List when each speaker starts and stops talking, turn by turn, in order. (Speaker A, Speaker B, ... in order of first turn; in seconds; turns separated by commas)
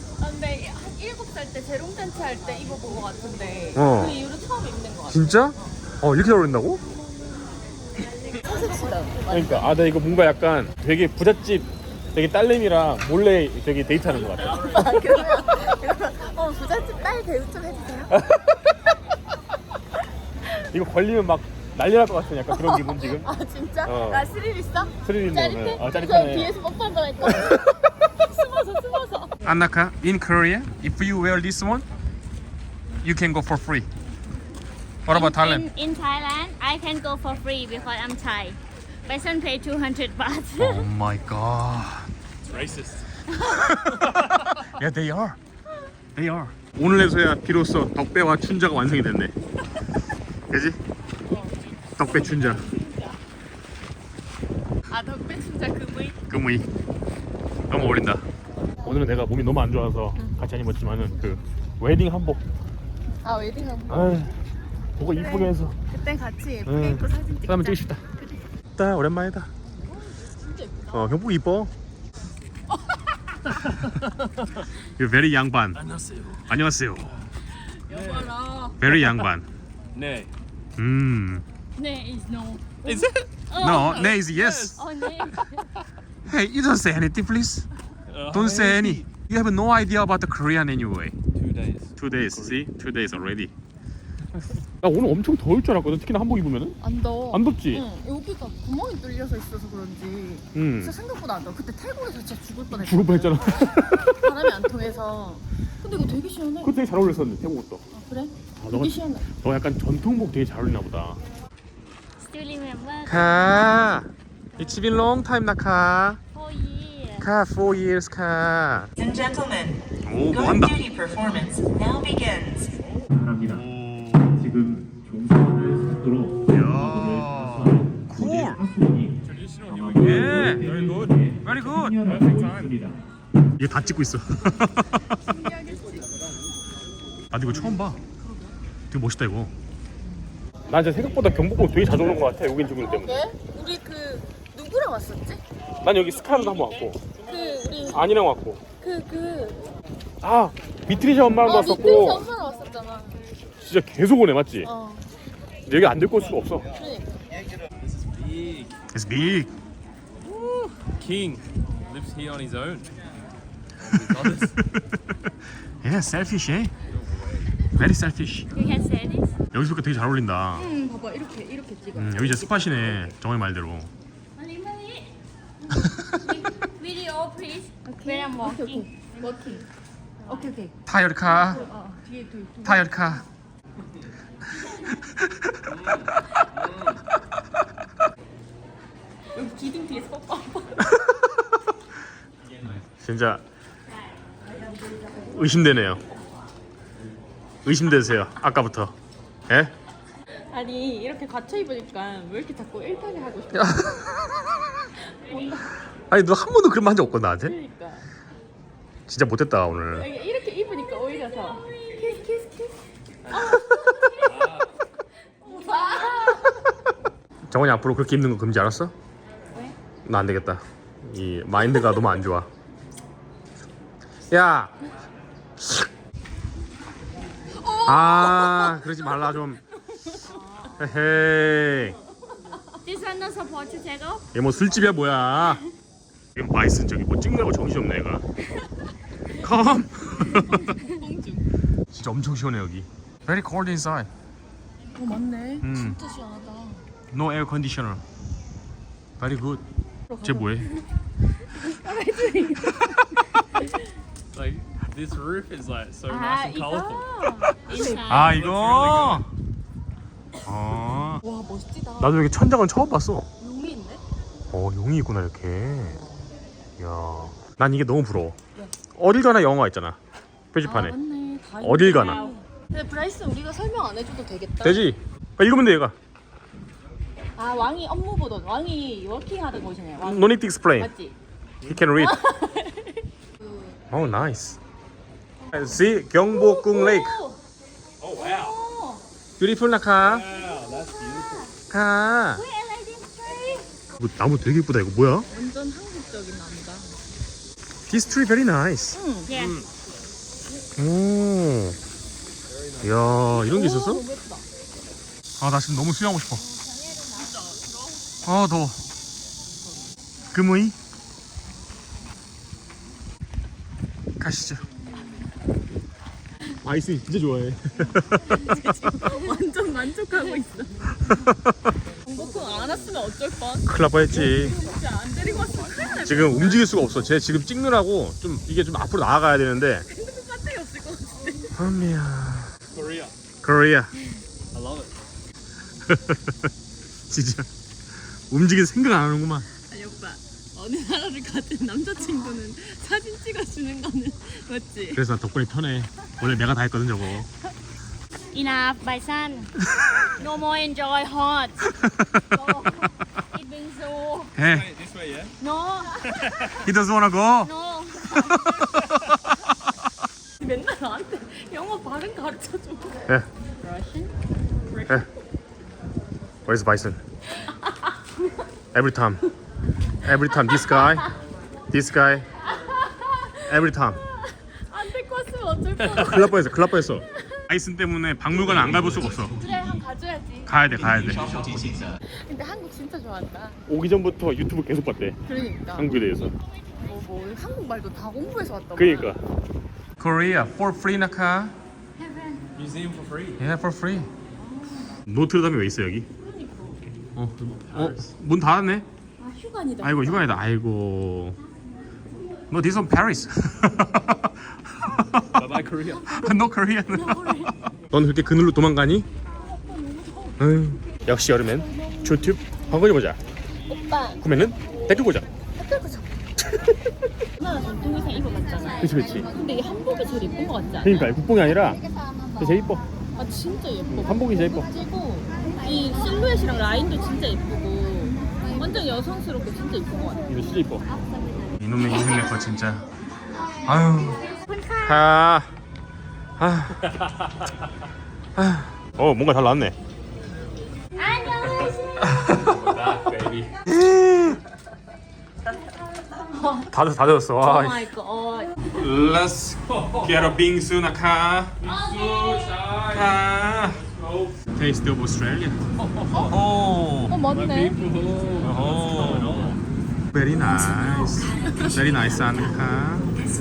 Speaker A: 0.2-5.7, Speaker B: 3.8-4.2, Speaker B: 5.1-6.8, Speaker A: 8.3-9.8, Speaker B: 9.3-14.8, Speaker C: 14.2-15.2, Speaker A: 14.6-18.2, Speaker B: 18.1-18.8, Speaker B: 20.6-23.3, Speaker A: 22.5-29.4, Speaker B: 23.8-24.3, Speaker B: 25.0-26.5, Speaker B: 27.2-27.6, Speaker B: 29.4-31.9, Speaker B: 33.0-33.9, Speaker B: 35.0-35.7, Speaker D: 35.1-40.9, Speaker B: 40.6-42.1, Speaker C: 42.4-43.0, Speaker B: 43.4-45.4, Speaker C: 43.9-44.6, Speaker B: 46.2-49.3, Speaker B: 50.5-50.8, Speaker A: 51.3-53.2, Speaker B: 52.0-52.6, Speaker A: 54.9-56.2, Speaker B: 56.3-56.7, Speaker B: 57.7-58.2, Speaker B: 58.8-62.4, Speaker A: 63.2-64.2, Speaker B: 63.9-64.3, Speaker B: 65.0-65.8, Speaker A: 65.0-68.2, Speaker B: 66.7-68.0, Speaker B: 68.8-69.5, Speaker A: 69.9-71.2, Speaker B: 70.9-71.7, Speaker C: 73.6-74.6, Speaker B: 75.0-75.8, Speaker C: 75.8-77.3, Speaker B: 76.5-77.1, Speaker A: 77.9-78.8, Speaker C: 77.9-78.4, Speaker B: 78.8-79.5, Speaker C: 78.9-79.2, Speaker C: 79.9-80.3, Speaker B: 80.8-81.5, Speaker A: 81.8-84.0, Speaker C: 82.8-83.3, Speaker D: 83.5-84.2, Speaker B: 83.5-84.8, Speaker C: 84.3-85.4, Speaker D: 84.8-85.3, Speaker A: 84.8-85.4, Speaker B: 86.3-87.7, Speaker C: 88.1-89.1, Speaker B: 88.3-91.2, Speaker C: 91.3-92.7, Speaker B: 92.0-93.5, Speaker B: 94.4-96.8, Speaker A: 96.8-106.7, Speaker B: 97.3-97.8, Speaker B: 100.5-100.9, Speaker B: 102.8-104.2, Speaker B: 106.6-107.8, Speaker A: 107.9-109.2, Speaker B: 108.6-111.2, Speaker D: 112.2-113.9, Speaker B: 113.0-116.2, Speaker D: 116.3-117.3, Speaker B: 117.2-118.9, Speaker E: 119.0-122.7, Speaker B: 120.0-120.8, Speaker F: 123.1-123.6, Speaker B: 123.5-124.4, Speaker F: 124.2-133.0, Speaker B: 126.5-128.7, Speaker C: 129.2-131.4, Speaker B: 130.0-130.6, Speaker B: 131.4-132.0, Speaker C: 132.0-132.8, Speaker B: 133.6-135.1, Speaker A: 135.1-136.4, Speaker B: 137.3-138.0, Speaker A: 138.2-138.6, Speaker B: 138.9-139.5, Speaker B: 140.7-143.2, Speaker A: 142.8-145.4, Speaker B: 145.8-147.0, Speaker A: 146.1-148.1, Speaker B: 147.9-148.6, Speaker A: 148.8-149.6, Speaker B: 150.2-152.3, Speaker A: 151.3-153.2, Speaker B: 153.6-154.7, Speaker A: 154.6-155.1, Speaker B: 155.7-156.7, Speaker A: 156.8-157.1, Speaker C: 157.8-158.8, Speaker B: 158.9-159.5, Speaker C: 160.8-162.9, Speaker C: 163.8-164.6, Speaker B: 164.6-164.9, Speaker B: 165.8-166.7, Speaker C: 166.9-167.5, Speaker B: 167.8-168.5, Speaker D: 168.5-169.4, Speaker B: 169.5-170.7, Speaker A: 170.6-172.5, Speaker B: 171.9-173.9, Speaker D: 174.4-175.1, Speaker B: 175.8-176.3, Speaker D: 176.2-179.6, Speaker A: 177.8-179.7, Speaker D: 180.2-180.5, Speaker A: 180.2-183.2, Speaker B: 180.9-181.6, Speaker B: 182.6-183.2, Speaker B: 185.2-185.5, Speaker C: 185.7-187.0, Speaker A: 189.3-190.9, Speaker B: 190.9-191.5, Speaker B: 192.9-193.4, Speaker B: 195.3-196.0, Speaker B: 197.6-198.9, Speaker A: 200.5-204.0, Speaker B: 203.5-204.5, Speaker A: 205.2-205.6, Speaker B: 206.1-207.6, Speaker A: 207.4-208.1, Speaker B: 209.1-210.1, Speaker A: 209.9-212.8, Speaker D: 211.3-212.1, Speaker C: 213.2-213.6, Speaker A: 213.3-214.3, Speaker C: 214.2-214.7, Speaker A: 215.4-216.4, Speaker D: 215.5-216.4, Speaker B: 217.5-218.9, Speaker B: 220.1-222.5, Speaker B: 224.3-224.7, Speaker B: 225.6-225.9, Speaker A: 227.6-228.8, Speaker B: 227.8-229.6, Speaker A: 230.3-230.8, Speaker B: 230.8-232.0, Speaker D: 232.8-234.3, Speaker B: 234.3-235.6, Speaker B: 236.3-238.2, Speaker B: 239.4-240.7, Speaker A: 240.2-241.5, Speaker B: 241.9-244.1, Speaker A: 244.9-246.8, Speaker B: 245.6-246.0, Speaker B: 247.1-248.0, Speaker B: 249.2-249.6, Speaker A: 250.1-250.8, Speaker B: 250.2-250.7, Speaker A: 251.6-253.0, Speaker B: 252.7-253.2, Speaker C: 254.3-257.1, Speaker A: 256.1-258.3, Speaker D: 257.3-258.4, Speaker B: 257.7-259.3, Speaker C: 258.1-259.3, Speaker B: 260.5-261.2, Speaker A: 261.2-262.3, Speaker B: 262.0-263.3, Speaker A: 263.4-264.0, Speaker B: 264.5-266.0, Speaker B: 266.8-268.4, Speaker B: 269.0-270.0, Speaker B: 270.5-271.0, Speaker A: 270.6-274.9, Speaker B: 271.6-272.2, Speaker D: 271.9-272.4, Speaker B: 274.6-275.9, Speaker A: 277.4-281.1, Speaker B: 280.0-280.9, Speaker B: 281.6-282.2, Speaker A: 282.0-283.8, Speaker B: 283.9-284.6, Speaker B: 285.5-287.2, Speaker A: 286.3-287.4, Speaker C: 288.0-288.6, Speaker A: 288.1-289.0, Speaker B: 289.4-290.3, Speaker C: 290.0-291.5, Speaker B: 291.7-292.4, Speaker D: 292.3-293.7, Speaker B: 294.0-295.3, Speaker A: 295.3-297.0, Speaker B: 297.9-299.0, Speaker A: 298.9-299.3, Speaker D: 299.3-299.6, Speaker C: 299.3-299.6, Speaker B: 300.8-301.8, Speaker C: 302.5-303.2, Speaker B: 302.8-304.0, Speaker A: 303.3-304.4, Speaker B: 305.4-306.4, Speaker D: 306.4-307.3, Speaker A: 307.1-307.9, Speaker B: 308.2-308.8, Speaker B: 310.3-310.8, Speaker B: 314.2-314.6, Speaker B: 316.6-319.0, Speaker A: 318.3-320.8, Speaker B: 321.1-321.7, Speaker A: 322.1-326.7, Speaker B: 323.7-324.6, Speaker C: 325.4-326.2, Speaker B: 326.0-329.9, Speaker A: 329.9-331.6, Speaker B: 331.6-332.5, Speaker C: 332.7-333.1, Speaker B: 333.4-333.9, Speaker C: 334.5-334.9, Speaker B: 335.9-336.5, Speaker B: 337.1-337.5, Speaker B: 338.3-339.5, Speaker A: 339.7-345.1, Speaker B: 344.9-347.3, Speaker D: 348.3-349.5, Speaker B: 349.7-350.1, Speaker D: 350.2-351.7, Speaker B: 351.7-352.6, Speaker A: 352.3-352.8, Speaker D: 353.3-354.3, Speaker B: 354.4-354.7, Speaker C: 354.4-355.4, Speaker D: 355.4-356.0, Speaker C: 356.1-356.6, Speaker B: 356.6-357.5, Speaker D: 357.4-358.7, Speaker B: 358.2-359.4, Speaker A: 360.4-363.0, Speaker D: 363.6-364.1, Speaker A: 363.7-364.1, Speaker A: 364.7-365.1, Speaker B: 366.5-367.0, Speaker B: 368.7-369.2, Speaker B: 370.0-371.1, Speaker A: 370.4-370.9, Speaker B: 371.7-372.3, Speaker A: 372.6-373.3, Speaker B: 373.5-374.0, Speaker A: 374.7-377.4, Speaker C: 375.8-376.2, Speaker B: 375.9-379.3, Speaker C: 378.6-379.1, Speaker A: 379.2-380.6, Speaker B: 380.5-381.6, Speaker C: 381.1-381.9, Speaker A: 382.1-383.6, Speaker B: 383.7-385.2, Speaker A: 385.3-386.0, Speaker B: 385.8-386.3, Speaker A: 386.8-389.2, Speaker B: 388.8-389.2, Speaker B: 390.0-391.6, Speaker D: 392.0-392.4, Speaker C: 392.6-393.4, Speaker B: 393.4-394.1, Speaker A: 394.4-395.0, Speaker B: 395.1-396.1, Speaker A: 396.2-396.8, Speaker B: 397.2-398.9, Speaker C: 397.4-398.1, Speaker A: 399.2-400.4, Speaker B: 399.8-401.4, Speaker B: 402.5-405.5, Speaker C: 405.3-406.1, Speaker B: 406.1-409.1, Speaker A: 406.9-407.5, Speaker A: 409.4-410.4, Speaker B: 410.4-413.2, Speaker A: 411.6-412.2, Speaker A: 413.7-414.2, Speaker B: 414.2-415.3, Speaker A: 415.6-416.1, Speaker B: 416.4-416.8, Speaker A: 417.4-421.1, Speaker B: 418.8-419.3, Speaker B: 420.8-421.8, Speaker B: 422.4-422.8, Speaker A: 423.2-430.3, Speaker B: 423.9-424.7, Speaker B: 430.3-430.8, Speaker B: 431.6-432.8, Speaker D: 431.9-432.3, Speaker B: 433.6-434.2, Speaker D: 434.4-435.1, Speaker B: 434.8-435.5, Speaker B: 436.4-436.9, Speaker C: 436.8-437.4, Speaker B: 438.4-439.8, Speaker D: 441.0-442.2, Speaker B: 442.1-442.5, Speaker C: 442.3-443.5, Speaker B: 443.7-444.4, Speaker B: 446.7-447.9, Speaker D: 447.4-448.6, Speaker B: 448.7-451.6, Speaker C: 449.7-450.4, Speaker C: 451.6-454.4, Speaker D: 451.7-452.4, Speaker B: 452.9-453.8, Speaker B: 454.5-455.6, Speaker C: 455.8-456.5, Speaker B: 456.2-457.2, Speaker A: 457.1-457.8, Speaker C: 457.3-459.6, Speaker B: 458.4-459.6, Speaker B: 460.1-463.1